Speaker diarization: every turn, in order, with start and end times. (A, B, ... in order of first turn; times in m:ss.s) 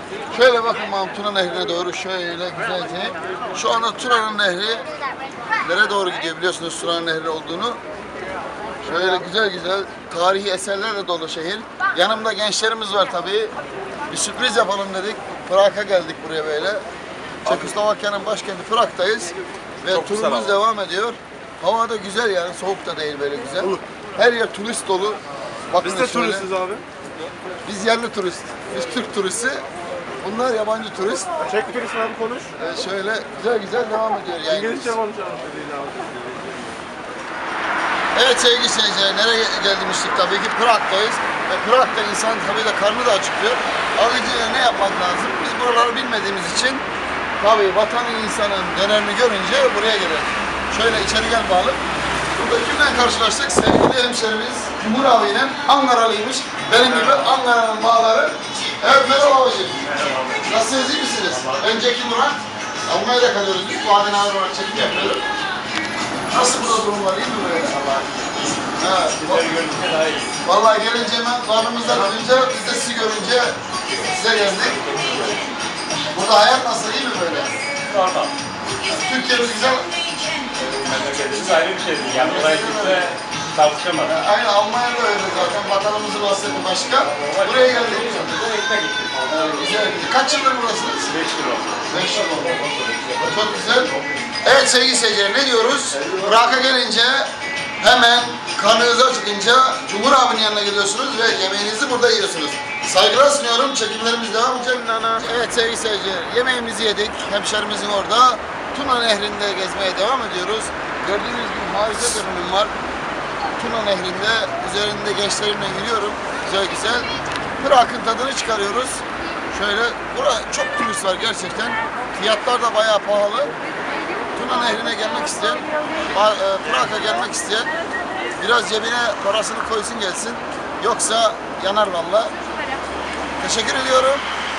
0:00.3-0:04.9 A
0:05.6-0:07.8 A
0:08.8-0:13.5 A
0:14.1-0:16.8 A
0:17.4-0:25.2 A
0:19.9-0:20.6 B
0:25.7-0:26.5 A
0:25.8-0:26.8 C
0:27.6-0:29.6 A
0:30.2-0:31.3 A
0:31.4-0:32.5 C
0:32.5-0:35.0 A
0:34.8-0:36.1 C
0:38.1-0:46.8 A
0:47.4-0:51.8 A
0:52.3-0:59.8 A
0:56.8-0:57.3 B
0:59.8-1:00.5 B
1:00.4-1:05.2 A
1:01.3-1:01.8 B
1:06.3-1:07.8 A
1:07.8-1:08.5 B
1:08.8-1:09.4 A
1:09.2-1:10.3 B
1:10.4-1:14.9 A
1:14.8-1:15.4 B
1:16.1-1:17.6 A
1:17.8-1:18.3 B
1:18.9-1:19.9 A
1:20.6-1:24.1 B
1:22.1-1:23.2 A
1:24.0-1:28.3 A
1:27.1-1:29.7 B
1:29.5-1:31.1 A
1:31.1-1:31.8 B
1:31.9-1:37.3 A
1:32.6-1:33.1 C
1:37.8-1:52.7 A
1:44.9-1:45.2 C
1:53.6-2:03.5 A
2:04.3-2:07.7 A
2:08.4-2:12.4 A
2:13.4-2:14.2 A